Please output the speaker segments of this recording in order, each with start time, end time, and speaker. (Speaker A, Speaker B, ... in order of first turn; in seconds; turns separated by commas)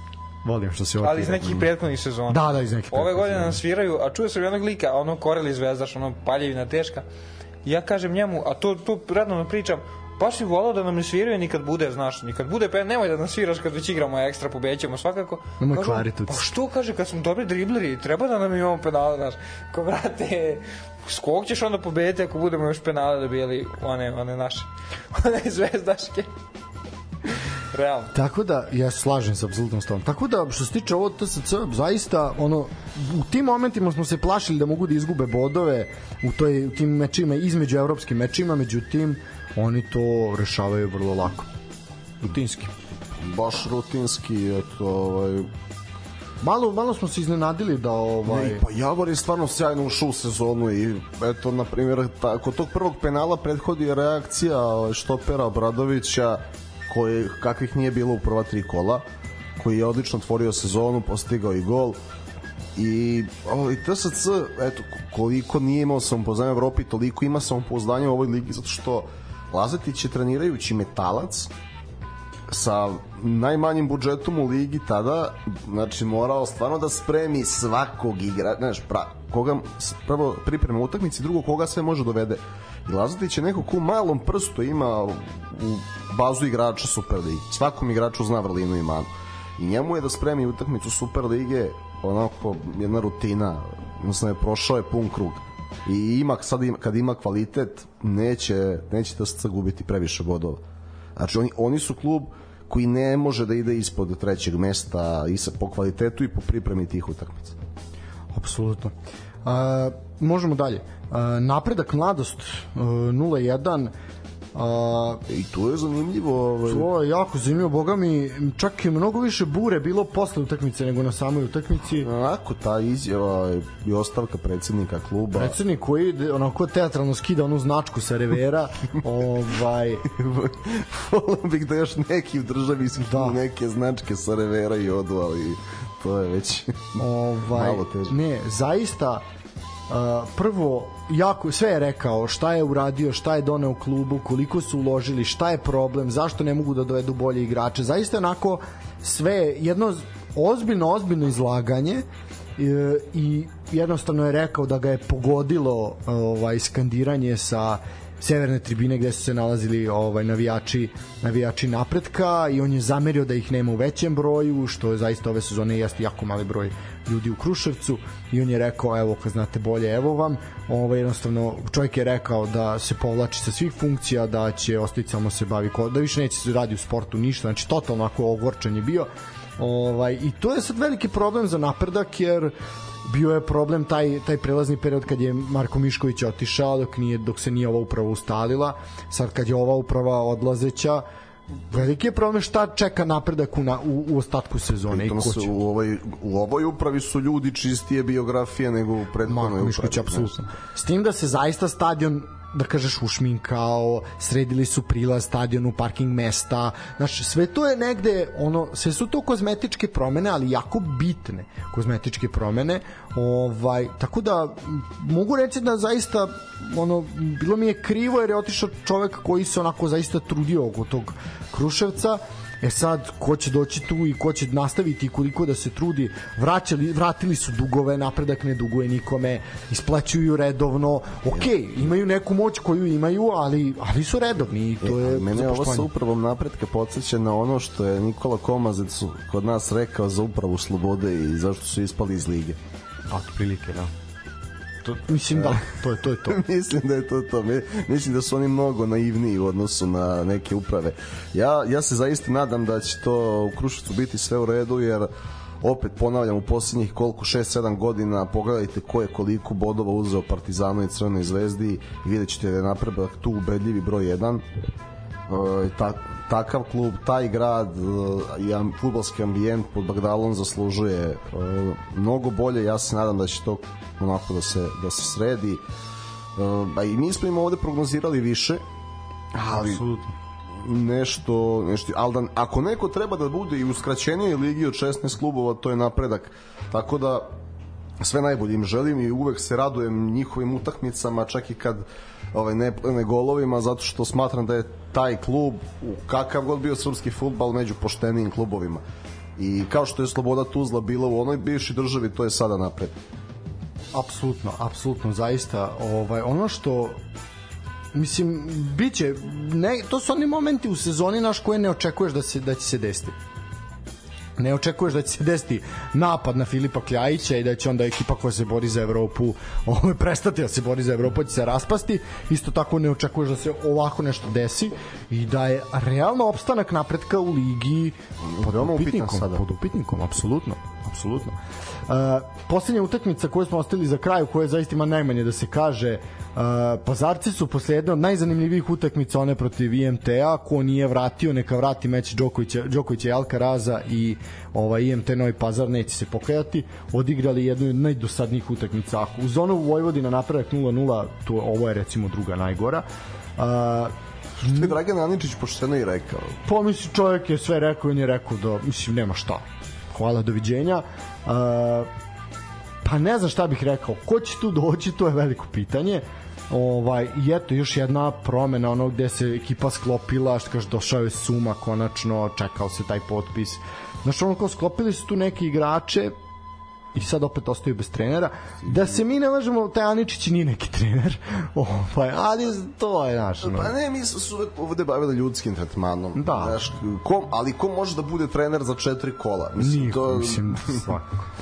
Speaker A: 0.4-1.7, Speaker B: 1.0-7.0, Speaker A: 2.3-3.6, Speaker B: 7.6-26.3, Speaker A: 15.6-16.5, Speaker B: 27.7-28.1, Speaker A: 28.1-41.5, Speaker A: 42.2-42.7, Speaker C: 43.2-45.5, Speaker A: 46.4-48.6, Speaker C: 48.2-59.0, Speaker C: 59.6-62.0, Speaker C: 62.8-71.5, Speaker C: 72.5-100.6, Speaker C: 101.2-107.6, Speaker A: 108.3-113.9, Speaker A: 114.5-115.2, Speaker C: 115.3-116.9, Speaker A: 116.7-122.1, Speaker C: 122.0-125.5, Speaker A: 125.3-130.1, Speaker C: 130.1-137.0, Speaker A: 133.1-133.4, Speaker A: 137.0-139.2, Speaker C: 137.5-138.2, Speaker A: 139.9-152.1, Speaker A: 152.6-191.0, Speaker A: 191.7-195.6, Speaker C: 194.9-200.3, Speaker A: 199.3-235.9, Speaker C: 234.8-242.6, Speaker A: 243.1-243.9, Speaker A: 244.8-246.4, Speaker C: 245.3-245.6, Speaker C: 246.3-255.1, Speaker C: 255.6-264.4, Speaker C: 265.3-275.6, Speaker C: 276.4-278.6, Speaker C: 279.3-279.8, Speaker A: 279.5-280.1, Speaker C: 280.6-287.3, Speaker C: 288.0-298.8, Speaker C: 299.4-302.9, Speaker A: 303.9-307.0, Speaker A: 307.9-313.2, Speaker A: 314.4-352.8, Speaker C: 328.2-329.4, Speaker A: 353.4-354.8, Speaker C: 354.4-356.4, Speaker A: 356.4-361.9, Speaker A: 362.8-376.1, Speaker A: 376.9-383.7, Speaker C: 383.4-390.8, Speaker A: 386.1-386.7, Speaker A: 389.6-391.1